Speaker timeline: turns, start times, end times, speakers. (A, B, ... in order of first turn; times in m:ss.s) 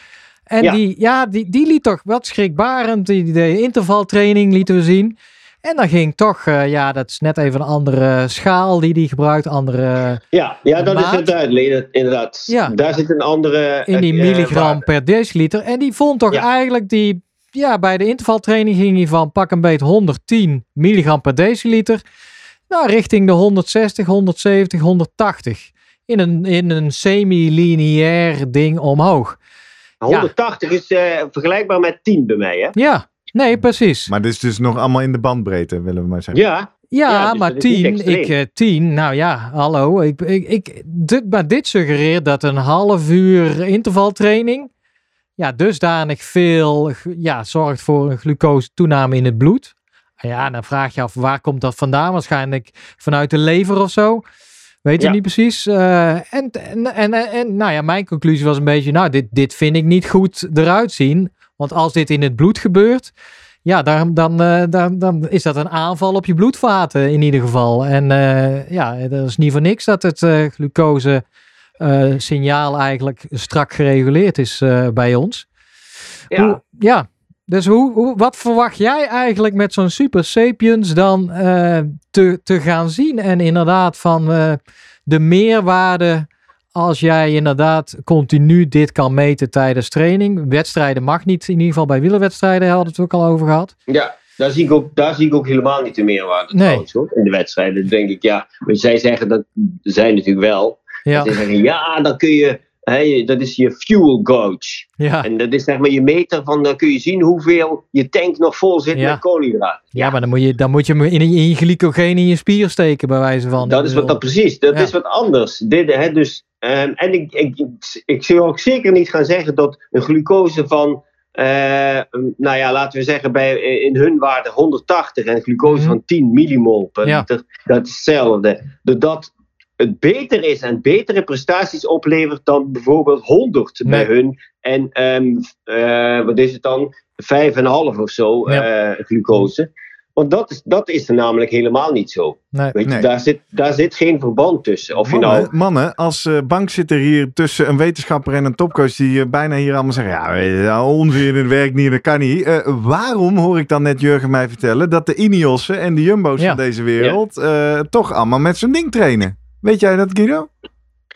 0:00.5-0:10.2 A
0:10.3-0:14.8 B
0:10.8-0:11.3 A
0:12.5-0:12.7 A
0:13.9-0:22.0 A
0:22.7-0:29.4 A
0:30.0-0:32.7 B
0:32.8-0:34.1 A
0:34.1-0:36.4 C
0:36.3-0:38.3 B
0:36.9-0:44.7 A
0:45.4-0:54.2 A
0:54.8-1:03.1 A
1:03.6-1:11.2 A
1:11.8-1:15.5 A
1:16.3-1:16.6 B
1:16.3-1:33.7 A
1:33.9-1:50.1 B
1:36.5-1:36.8 A
1:41.0-1:41.4 A
1:45.0-1:45.3 A
1:48.9-1:49.2 A
1:49.9-1:54.2 A
1:53.6-2:25.5 B
2:05.7-2:06.0 A
2:25.0-2:40.5 C